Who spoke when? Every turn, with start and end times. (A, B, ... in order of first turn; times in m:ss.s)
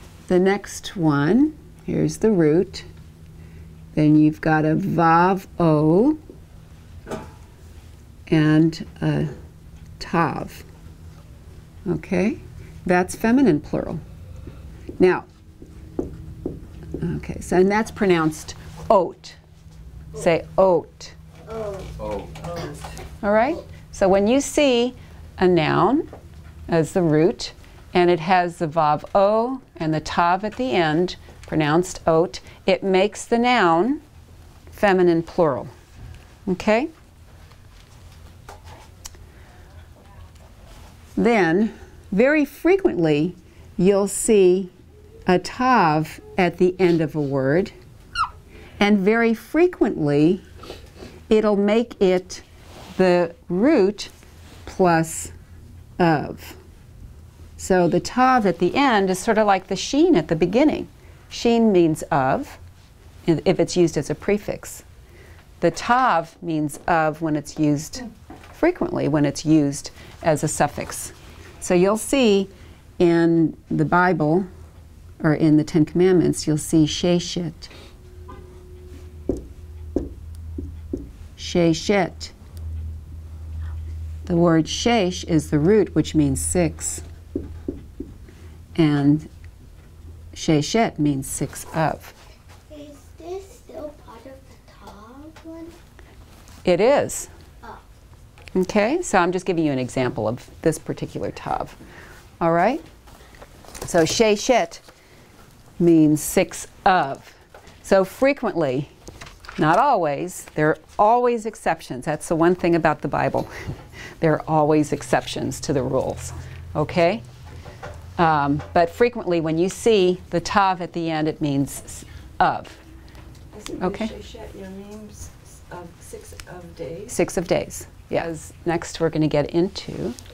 0:00.3-0:02.9 A
0:03.9-0:06.2 A
0:08.3-0:09.3 A
0:10.0-0:10.6 A
0:11.8-0:14.0 A
0:15.0-0:15.2 A
0:17.0-0:19.4 A
0:20.1-0:21.2 A
0:21.5-0:21.9 B
0:22.1-0:22.8 C
0:23.2-0:26.1 A
0:26.7-0:34.0 A
0:34.7-0:35.7 A
0:36.5-0:36.9 A
0:41.2-0:44.7 A
0:45.2-0:47.7 A
0:48.8-0:50.4 A
0:51.3-0:54.1 A
0:54.6-0:55.3 A
0:56.0-0:56.6 A
0:57.6-1:02.6 A
1:03.2-1:04.8 A
1:05.6-1:14.4 A
1:15.2-1:17.7 A
1:21.4-1:22.3 A
1:24.2-1:27.0 A
1:28.8-1:29.3 A
1:30.3-1:32.2 A
1:32.7-1:35.7 B
1:36.6-1:37.3 A
1:38.5-1:41.8 A
1:42.4-1:42.8 A
1:43.8-1:44.8 A
1:45.8-1:48.9 A
1:49.6-1:53.5 A
1:54.2-1:57.2 A
1:58.2-2:02.8 A
2:03.5-2:07.1 C
2:03.7-2:04.1 A
2:07.1-2:10.2 A